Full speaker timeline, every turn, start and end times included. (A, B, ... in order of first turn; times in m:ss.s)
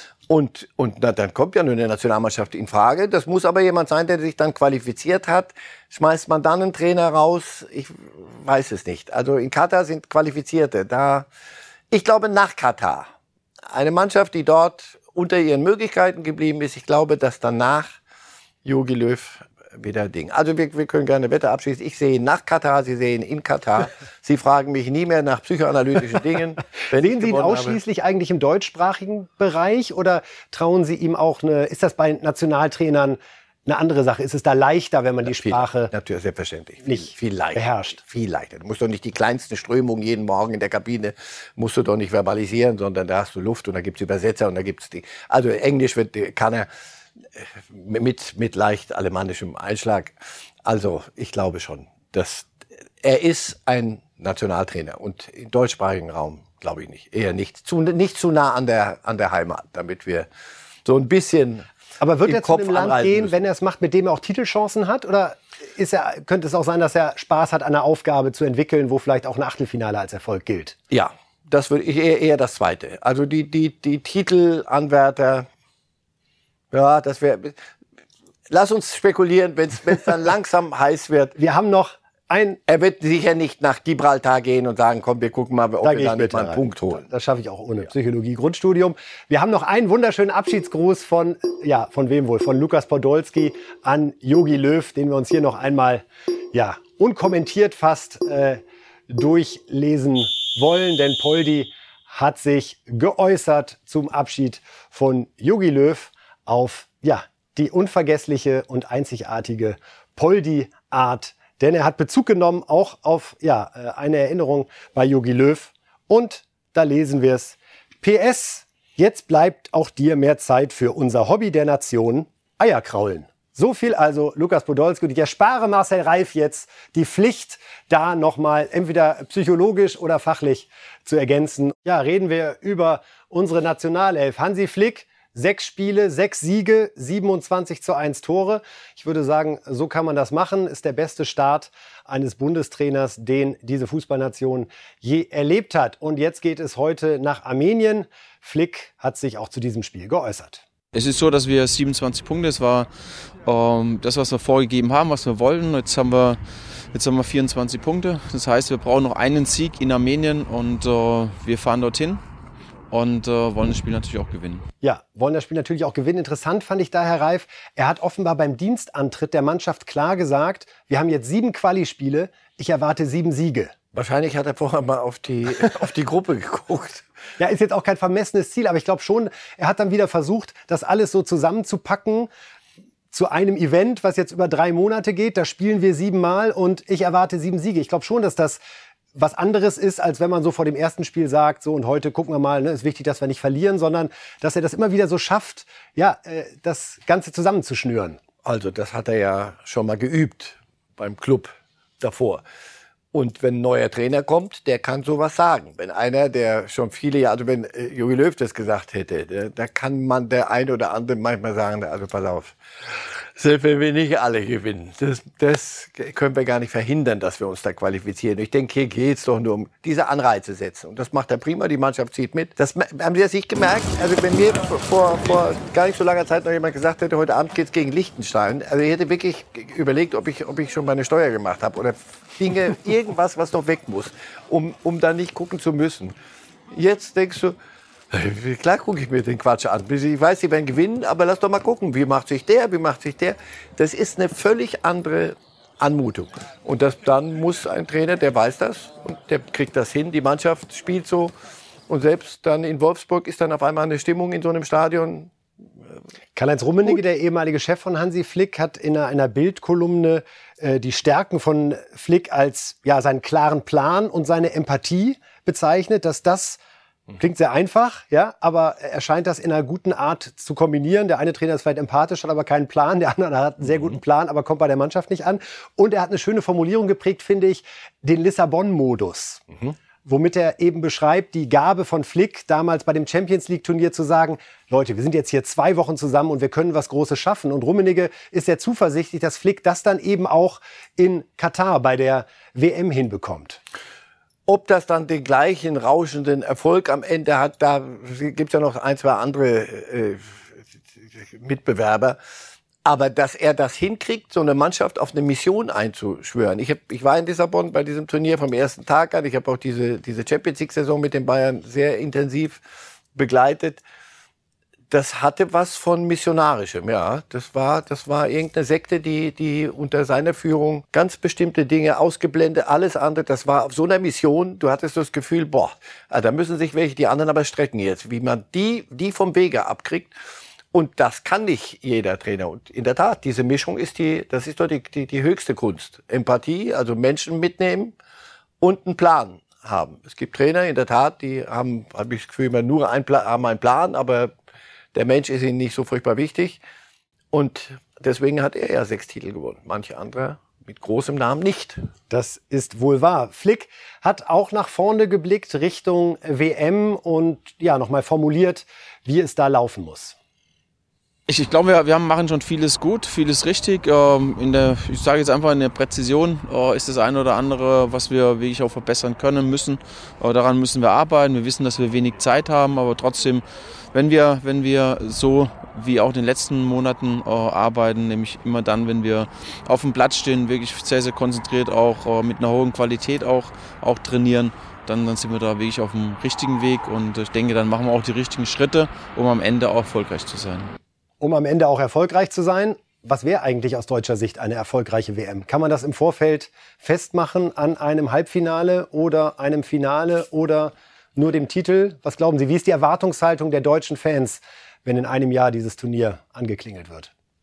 0:00.3-0:11.3 A
0:11.9-0:13.1 A
0:13.7-0:18.0 A
0:18.6-0:27.8 A
0:26.9-0:35.9 B
0:35.3-0:46.7 A
0:36.8-0:38.0 B
0:47.4-1:00.3 A
1:00.8-1:01.7 A
1:02.0-1:10.8 B
1:02.3-1:03.4 A
1:10.9-1:15.5 A
1:16.7-1:17.6 A
1:18.5-1:21.4 A
1:21.4-1:22.6 B
1:22.7-1:27.1 A
1:25.8-2:30.6 B
2:30.9-2:32.9 C
2:33.4-2:36.4 C
2:36.9-2:42.2 C
2:42.9-2:44.6 C
2:44.8-2:53.7 B
2:53.9-2:57.0 A
2:57.4-3:02.3 B
3:03.1-3:08.6 B
3:09.2-3:18.2 B
3:18.4-3:22.4 A
3:23.1-3:56.2 A
3:56.7-3:57.6 A
3:58.1-4:11.3 A
4:11.9-4:15.3 A
4:16.4-4:26.6 B
4:27.2-4:39.5 B
4:40.0-4:53.6 B
4:54.5-5:00.5 A
5:01.2-5:02.2 A
5:02.8-5:12.6 A
5:13.2-5:13.8 A
5:14.9-5:30.2 A
5:30.7-5:38.0 A
5:38.6-5:44.3 A
5:44.9-5:46.6 A
5:47.3-5:51.8 A
5:52.1-6:00.2 B
6:01.3-6:30.7 C
6:31.2-6:47.1 B